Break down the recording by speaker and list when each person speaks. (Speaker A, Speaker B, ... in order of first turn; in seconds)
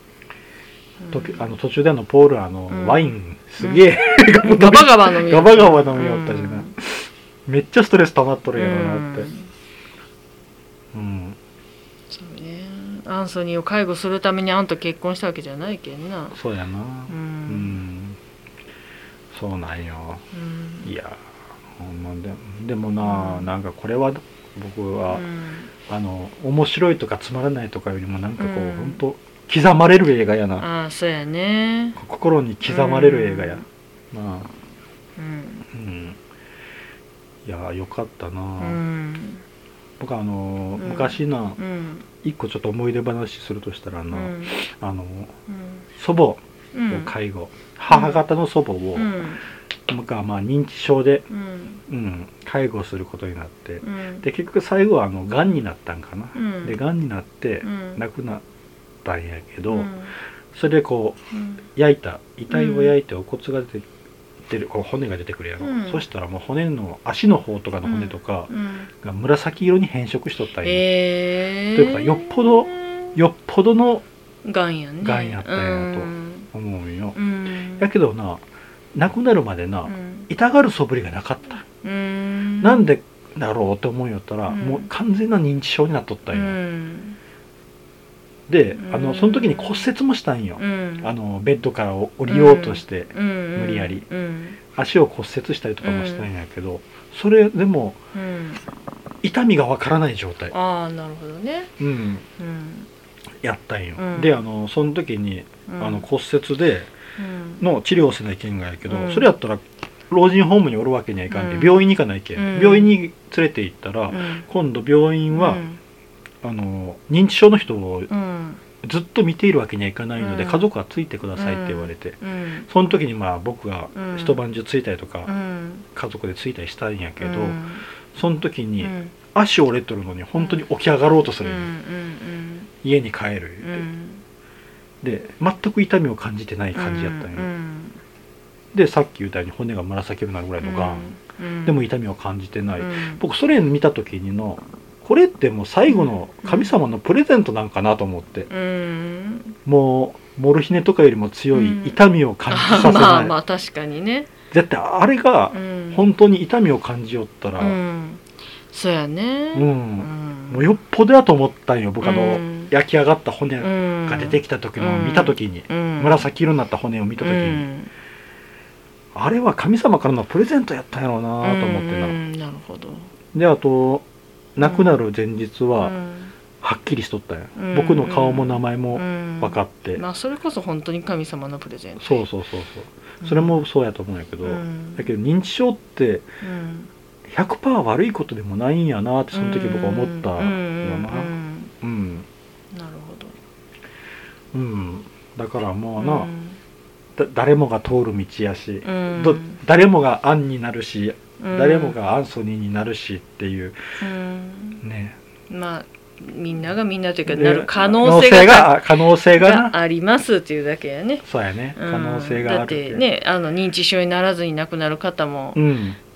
Speaker A: 1.0-1.5, 2.7-6.7, 8.5-9.5, 12.1-16.4, 17.1-17.8, 20.3-20.9, 23.0-23.5, 25.1-25.7, 28.4-29.0, 30.6-32.0, 32.6-33.6, 35.2-35.6, 38.6-39.4, 40.8-42.0, 44.1-44.6, 45.5-45.8, 46.7-47.1, 47.9-48.2, 48.9-49.4, 51.3-51.8, 53.8-54.2, 56.3-56.8, 57.6-58.0, 59.7-60.1, 61.3-61.6, 62.5-62.9, 65.6-66.0, 67.8-68.9, 70.6-73.2, 74.4-76.5, 77.1-77.9, 79.8-80.3, 81.8-82.9, 84.5-84.9, 86.3-87.2, 88.8-89.9, 90.6-91.1, 92.3-94.6, 95.8-96.3, 98.1-98.6, 100.5-101.7, 102.4-102.9, 104.0-104.4, 105.7-106.0, 107.2-107.6, 108.9-109.3, 111.3-112.9, 114.1-114.5, 115.3-115.8, 118.1-118.6, 120.2-120.7, 121.3-122.7, 123.9-124.4, 125.2-125.9, 127.2-127.8, 128.8-129.1, 130.4-130.6, 131.4-132.7, 133.6-134.2, 136.7-138.0, 140.6-141.9, 142.8-143.2, 145.9-146.7, 148.5-149.6, 151.5-154.3, 155.5-156.1, 157.6-160.8, 162.0-162.7, 163.6-166.3, 167.2-167.9, 171.4-173.1, 174.6-175.0, 175.8-176.3, 177.6-182.3, 183.2-183.6, 184.4-185.1, 186.4-186.9, 189.3-191.7, 192.7-193.4, 196.0-196.6, 198.8-199.6, 201.4-201.9, 204.0-204.8, 205.5-215.7
Speaker B: 1.1-9.3, 10.9-11.4, 16.3-18.2, 19.3-20.2, 20.8-21.2, 21.8-25.2, 25.9-30.6, 32.0-34.5, 35.7-36.2, 37.4-38.8, 40.0-41.6, 42.2-45.3, 46.0-49.2, 49.9-51.2, 51.9-58.4, 59.0-59.9, 60.5-61.2, 61.8-63.9, 64.5-70.8, 71.7-74.0, 75.0-77.2, 77.8-78.4, 78.9-81.6, 82.6-86.6, 88.5-94.0, 94.7-98.0, 99.2-100.5, 101.8-102.2, 103.4-106.9, 107.6-115.6, 116.4-118.1, 118.8-122.2, 122.7-125.3, 125.9-127.6, 128.1-131.7, 132.8-133.8, 135.0-137.5, 138.7-141.1, 141.6-148.5, 149.7-153.3, 154.5-157.8, 159.5-167.7, 169.1-172.2, 173.3-174.0, 174.6-175.9, 176.6-180.0, 182.0-186.2, 187.3-192.3, 194.5-196.3, 197.2-203.8, 204.8-205.2, 207.3-209.7, 211.2-213.0, 215.5-216.0